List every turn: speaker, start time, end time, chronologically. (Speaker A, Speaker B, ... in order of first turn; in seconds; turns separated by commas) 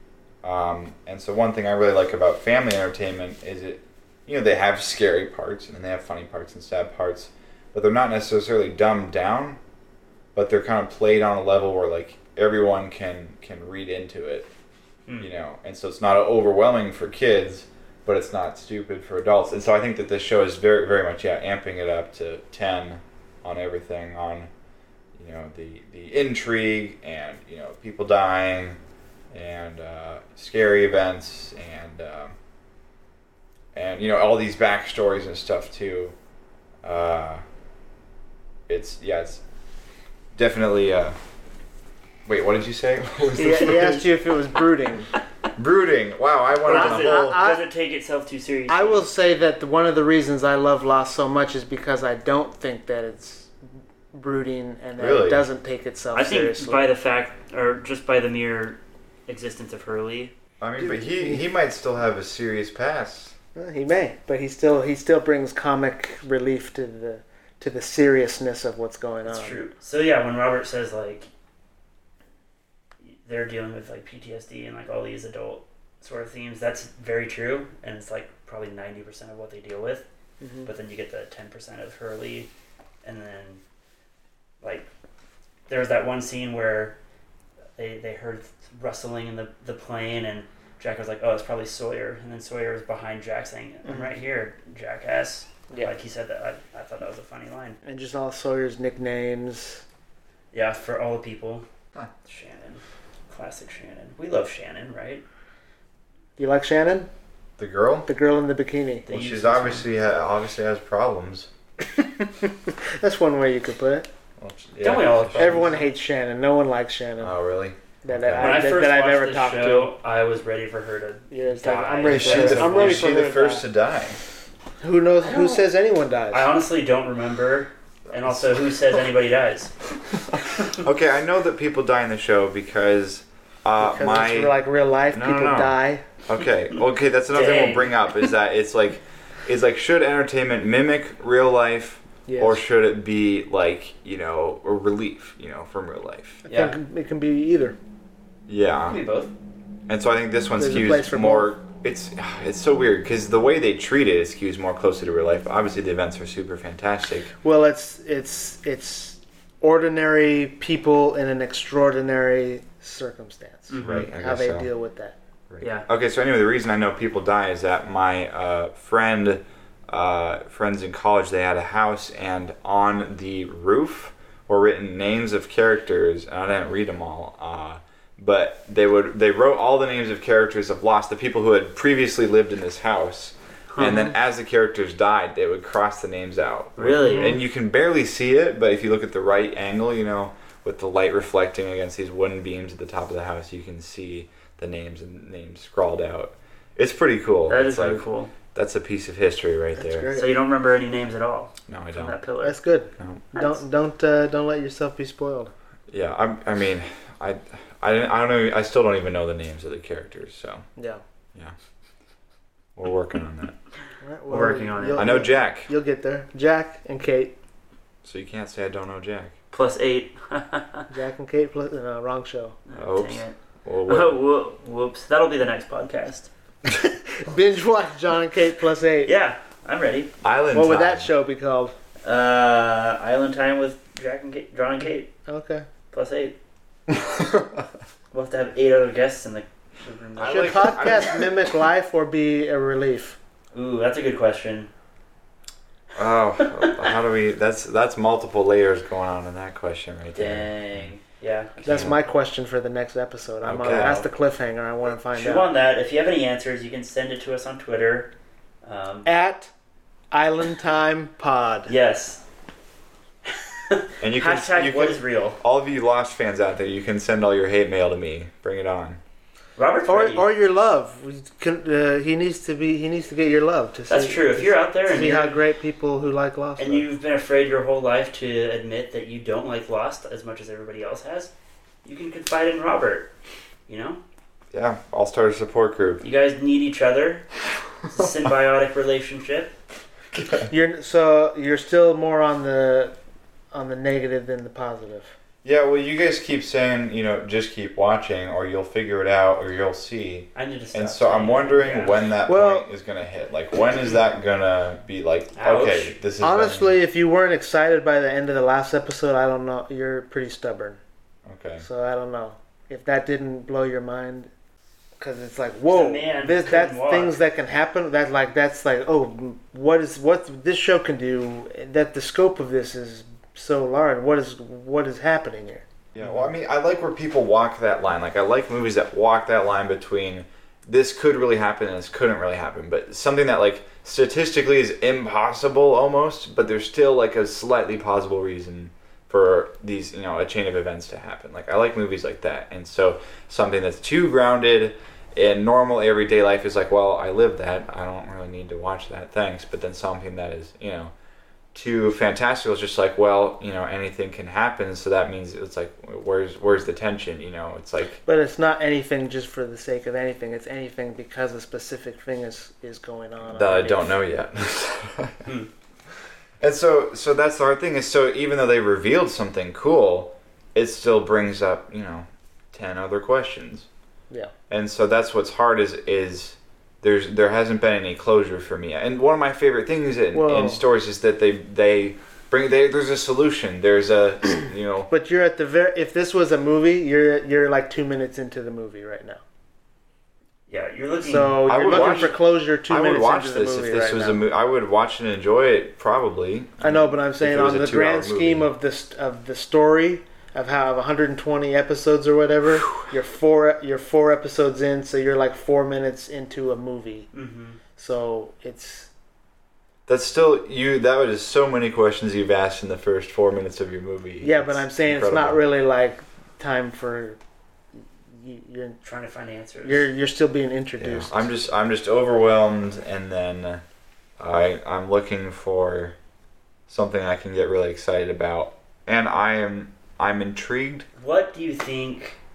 Speaker A: 0.4-9.6, Speaker A: 10.3-14.5, Speaker A: 15.2-24.5, Speaker A: 25.1-28.8, Speaker A: 29.3-32.4, Speaker A: 33.7-36.1, Speaker A: 36.8-37.4, Speaker A: 38.7-39.4, Speaker A: 40.3-41.2, Speaker A: 42.2-44.1, Speaker B: 43.3-45.1, Speaker A: 45.5-47.4, Speaker C: 46.6-49.1, Speaker B: 46.7-47.6, Speaker B: 48.7-53.5, Speaker B: 54.1-56.9, Speaker A: 55.0-55.5, Speaker C: 56.1-60.3, Speaker A: 60.6-63.3, Speaker B: 60.8-61.4, Speaker B: 63.5-69.6, Speaker C: 69.2-71.3, Speaker C: 73.0-80.0, Speaker B: 80.4-80.7, Speaker C: 80.6-82.5, Speaker C: 83.0-83.6, Speaker C: 84.6-84.9, Speaker C: 85.7-87.0, Speaker C: 87.8-97.8, Speaker B: 93.8-94.1, Speaker B: 97.8-99.8, Speaker C: 100.5-101.6, Speaker C: 102.2-105.2, Speaker B: 106.4-107.1, Speaker A: 107.6-108.1, Speaker B: 108.0-109.1, Speaker C: 109.0-109.8, Speaker A: 109.1-111.5, Speaker B: 112.2-114.1, Speaker A: 114.4-115.7, Speaker C: 114.8-115.8, Speaker B: 115.3-117.3, Speaker A: 117.2-118.6, Speaker B: 118.0-119.9, Speaker C: 118.4-123.1, Speaker B: 121.3-123.6, Speaker A: 122.0-124.2, Speaker B: 124.8-126.5, Speaker C: 125.3-125.6, Speaker C: 126.3-129.7, Speaker A: 128.1-128.4, Speaker A: 130.6-134.5, Speaker B: 133.8-136.0, Speaker A: 135.1-146.4, Speaker C: 137.3-138.0, Speaker B: 142.3-142.6, Speaker C: 146.4-146.8, Speaker B: 146.5-147.8, Speaker A: 148.5-149.0, Speaker C: 148.9-149.3, Speaker A: 149.9-157.3, Speaker B: 150.6-151.5, Speaker B: 157.4-165.2, Speaker C: 163.7-164.1, Speaker A: 163.8-164.7, Speaker A: 165.5-200.1, Speaker C: 165.6-165.8, Speaker C: 183.7-184.1, Speaker C: 186.8-187.4, Speaker C: 197.5-198.3, Speaker B: 199.8-200.3, Speaker C: 200.1-202.5, Speaker A: 201.7-202.2, Speaker B: 202.4-205.5, Speaker A: 203.0-203.2, Speaker A: 205.9-210.7, Speaker A: 212.8-213.6, Speaker B: 214.0-217.3, Speaker C: 214.3-215.2, Speaker A: 214.9-215.7, Speaker A: 218.0-219.4, Speaker C: 219.5-220.9, Speaker B: 220.9-222.6, Speaker C: 222.7-226.3, Speaker A: 222.8-224.2, Speaker B: 227.2-229.1, Speaker C: 229.0-230.1, Speaker A: 230.2-231.1, Speaker B: 230.5-231.7, Speaker C: 232.0-235.1, Speaker B: 235.3-235.7, Speaker C: 235.9-236.3, Speaker A: 236.9-237.6, Speaker C: 238.1-241.1, Speaker A: 240.2-241.3, Speaker B: 240.2-243.2, Speaker C: 243.5-244.7, Speaker A: 245.9-250.9, Speaker C: 246.4-246.8, Speaker C: 250.1-252.1, Speaker B: 251.6-255.5, Speaker A: 251.7-251.9, Speaker A: 253.4-254.0, Speaker C: 253.7-254.0, Speaker C: 255.1-258.1, Speaker C: 258.6-259.1, Speaker B: 259.0-259.5, Speaker B: 260.1-261.7, Speaker C: 261.7-262.2, Speaker C: 263.3-265.4, Speaker A: 264.0-269.0, Speaker C: 269.6-270.3, Speaker B: 269.9-276.8, Speaker C: 273.9-275.4, Speaker C: 276.6-281.3, Speaker C: 281.8-283.1, Speaker C: 283.7-284.0, Speaker A: 284.5-286.0, Speaker C: 286.0-287.3, Speaker C: 287.9-289.5, Speaker A: 290.1-290.5, Speaker B: 290.5-292.9, Speaker B: 293.5-295.1, Speaker A: 295.4-306.7, Speaker C: 300.3-302.1, Speaker B: 302.2-302.6, Speaker C: 305.3-305.9, Speaker B: 306.2-310.8, Speaker A: 311.2-311.6, Speaker B: 311.6-314.3, Speaker B: 315.0-325.6, Speaker C: 315.7-317.2, Speaker A: 325.9-350.9, Speaker A: 351.5-358.0, Speaker B: 358.1-364.0, Speaker A: 363.2-365.3, Speaker A: 366.4-373.7, Speaker A: 374.5-384.9, Speaker B: 380.1-380.6, Speaker B: 384.9-389.2, Speaker C: 390.5-392.1, Speaker B: 391.0-394.2, Speaker A: 391.5-392.2, Speaker A: 392.7-398.5, Speaker B: 396.6-407.1, Speaker C: 407.1-407.6, Speaker B: 407.8-408.9, Speaker A: 409.9-415.4, Speaker B: 414.2-417.2, Speaker B: 418.1-418.8, Speaker C: 418.8-419.9, Speaker B: 419.6-421.3, Speaker A: 420.8-423.6, Speaker A: 424.2-425.9, Speaker A: 426.7-430.9, Speaker C: 430.9-432.2